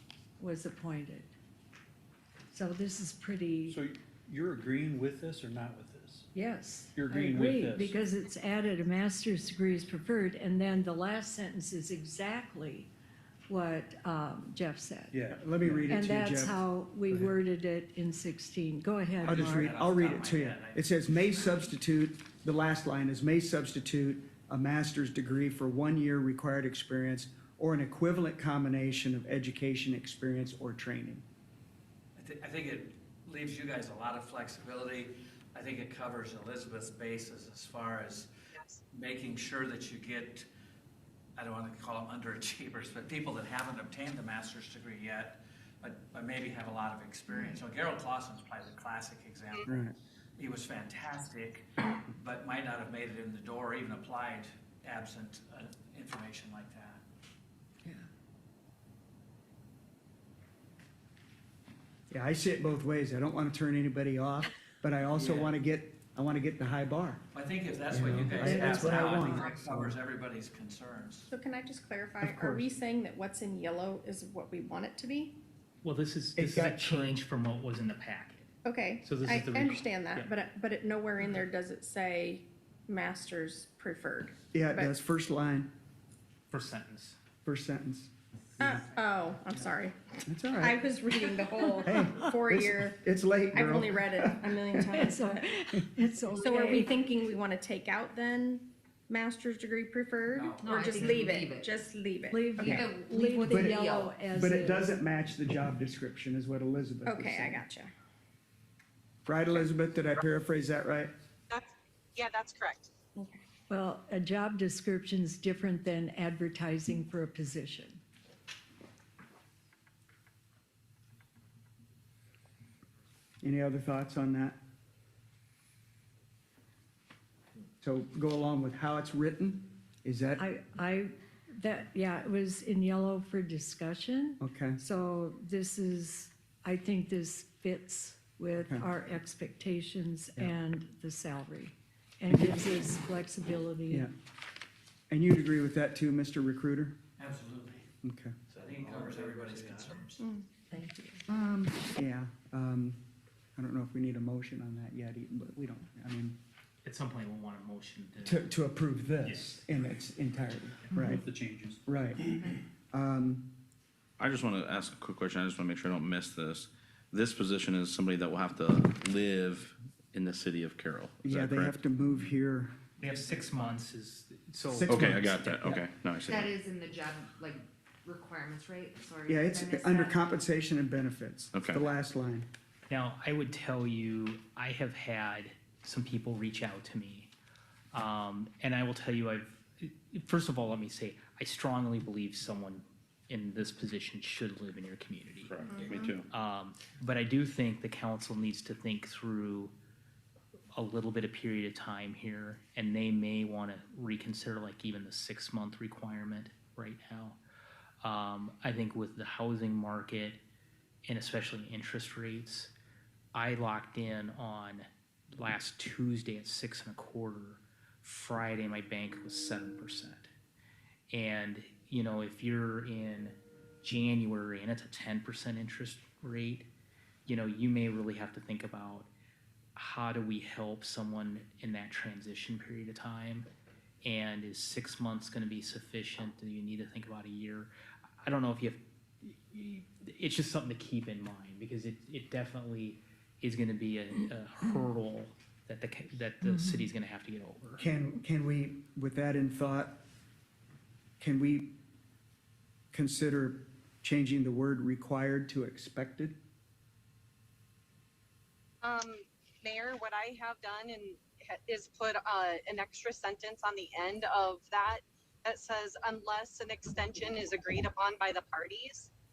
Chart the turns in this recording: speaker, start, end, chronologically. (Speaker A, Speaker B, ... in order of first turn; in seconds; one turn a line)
Speaker A: 0.4-1.3
Speaker A: 2.5-3.8
Speaker B: 3.7-6.3
Speaker A: 6.3-12.9
Speaker B: 7.0-8.0
Speaker A: 13.5-15.2
Speaker B: 15.1-16.0
Speaker C: 15.3-17.3
Speaker A: 15.9-19.8
Speaker D: 19.2-21.7
Speaker C: 19.2-31.3
Speaker D: 32.2-38.3
Speaker E: 38.5-38.8
Speaker D: 38.9-40.5
Speaker D: 41.4-49.7
Speaker C: 49.7-50.0
Speaker D: 50.4-57.0
Speaker C: 62.1-67.2
Speaker D: 65.1-65.5
Speaker D: 67.3-71.3
Speaker C: 67.9-69.9
Speaker A: 68.4-68.8
Speaker F: 71.3-75.4
Speaker C: 72.2-72.7
Speaker G: 75.8-80.3
Speaker C: 76.4-77.2
Speaker F: 78.7-84.9
Speaker C: 84.5-85.7
Speaker G: 86.5-87.2
Speaker C: 87.5-88.1
Speaker F: 88.6-93.0
Speaker C: 90.3-90.8
Speaker C: 91.8-94.4
Speaker F: 93.5-95.5
Speaker A: 95.0-97.0
Speaker F: 96.4-102.6
Speaker D: 100.3-100.8
Speaker H: 100.6-101.7
Speaker A: 102.3-105.0
Speaker H: 102.6-104.1
Speaker C: 103.5-107.7
Speaker F: 107.0-107.9
Speaker C: 109.3-111.1
Speaker E: 111.5-112.9
Speaker F: 113.2-113.4
Speaker A: 113.7-118.0
Speaker C: 123.4-124.6
Speaker C: 127.8-130.4
Speaker A: 130.4-144.1
Speaker C: 134.4-134.8
Speaker C: 142.3-142.7
Speaker C: 145.1-147.0
Speaker D: 147.2-147.9
Speaker C: 148.0-148.3
Speaker D: 148.6-150.3
Speaker A: 150.7-151.2
Speaker C: 151.3-153.0
Speaker C: 153.6-156.4
Speaker G: 156.8-158.5
Speaker C: 158.2-161.3
Speaker G: 159.2-160.0
Speaker G: 160.9-161.2
Speaker B: 161.0-162.6
Speaker C: 161.9-162.2
Speaker C: 162.9-163.5
Speaker I: 164.2-171.8
Speaker C: 171.2-172.8
Speaker G: 173.0-175.7
Speaker D: 173.0-173.8
Speaker C: 174.7-175.8
Speaker I: 174.9-176.6
Speaker H: 176.3-180.2
Speaker C: 179.3-182.5
Speaker I: 181.6-181.9
Speaker G: 182.9-187.3
Speaker G: 187.9-195.6
Speaker I: 195.4-196.3
Speaker G: 196.3-199.7
Speaker G: 200.7-207.4
Speaker G: 208.0-210.4
Speaker G: 211.1-212.7
Speaker G: 213.3-220.3
Speaker G: 221.1-226.7
Speaker G: 227.3-229.1
Speaker G: 229.8-233.5
Speaker G: 234.0-237.7
Speaker G: 238.2-247.9
Speaker A: 246.4-246.9
Speaker C: 247.8-250.0
Speaker C: 251.2-251.8
Speaker C: 252.9-256.4
Speaker E: 258.8-269.1